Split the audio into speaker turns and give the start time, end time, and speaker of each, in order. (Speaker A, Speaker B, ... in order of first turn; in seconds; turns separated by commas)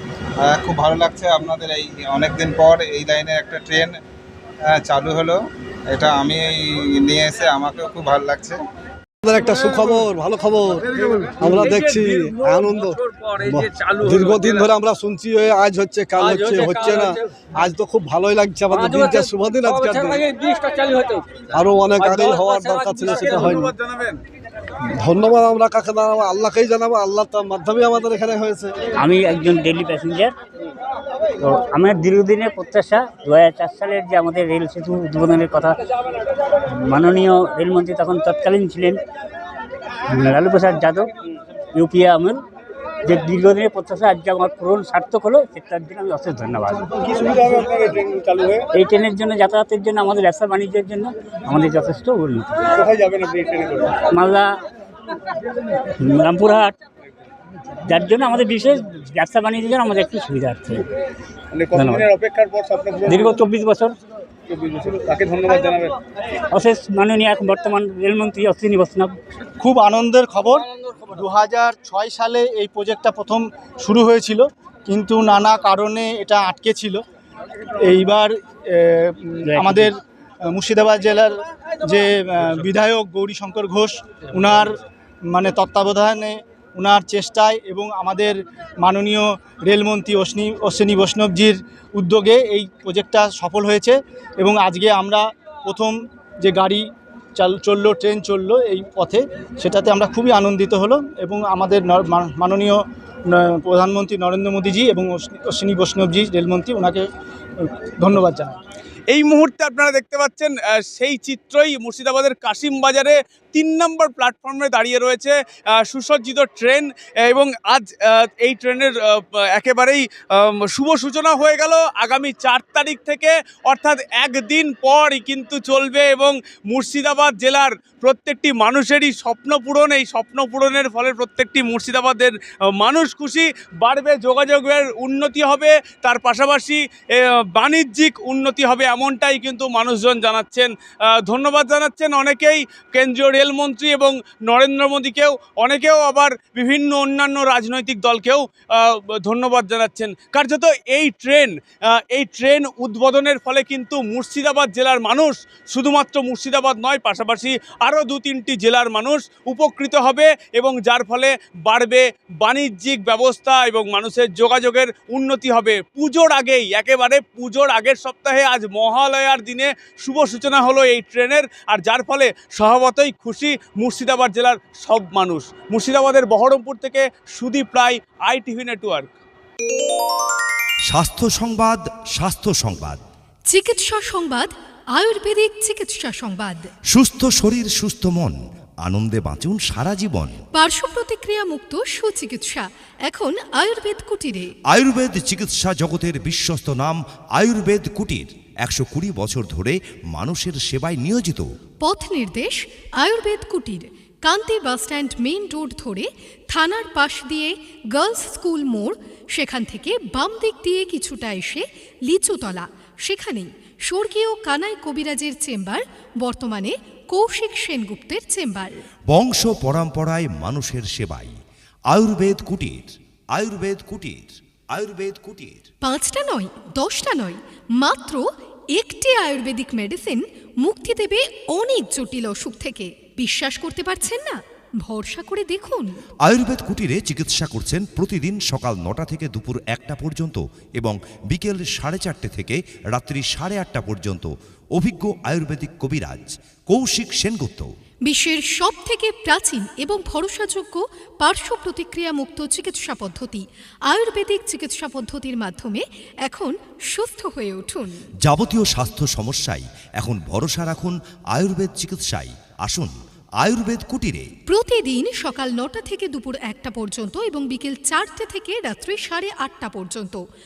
Speaker A: 0.4-4.0, Speaker A: 4.7-8.6, Speaker B: 9.2-20.2, Speaker C: 11.7-12.2, Speaker C: 13.9-14.3, Speaker C: 16.5-17.1, Speaker C: 20.2-21.3, Speaker B: 21.5-23.7, Speaker C: 22.0-24.2, Speaker B: 25.0-28.8, Speaker D: 29.0-30.3, Speaker D: 31.4-35.8, Speaker D: 36.7-39.0, Speaker D: 40.1-41.1, Speaker D: 41.7-42.4, Speaker D: 43.0-46.9, Speaker C: 47.0-48.7, Speaker D: 48.7-52.7, Speaker C: 52.7-54.0, Speaker D: 54.1-54.5, Speaker D: 56.0-56.7, Speaker D: 57.8-60.9, Speaker C: 61.5-63.3, Speaker D: 61.7-62.1, Speaker D: 63.1-64.0, Speaker C: 64.5-66.0, Speaker D: 66.5-69.1, Speaker E: 69.6-77.0, Speaker E: 77.8-84.8, Speaker D: 79.4-79.9, Speaker E: 85.3-107.1, Speaker E: 107.6-108.5, Speaker C: 109.1-179.1, Speaker F: 180.9-183.0, Speaker G: 183.5-186.7, Speaker F: 186.9-190.4, Speaker G: 190.6-194.5, Speaker F: 194.7-201.4, Speaker G: 201.8-218.8, Speaker F: 219.1-221.3, Speaker F: 221.9-225.6, Speaker G: 225.8-228.2, Speaker G: 228.8-235.9, Speaker F: 236.2-247.7, Speaker G: 248.1-258.1, Speaker F: 258.2-264.3, Speaker G: 264.5-270.2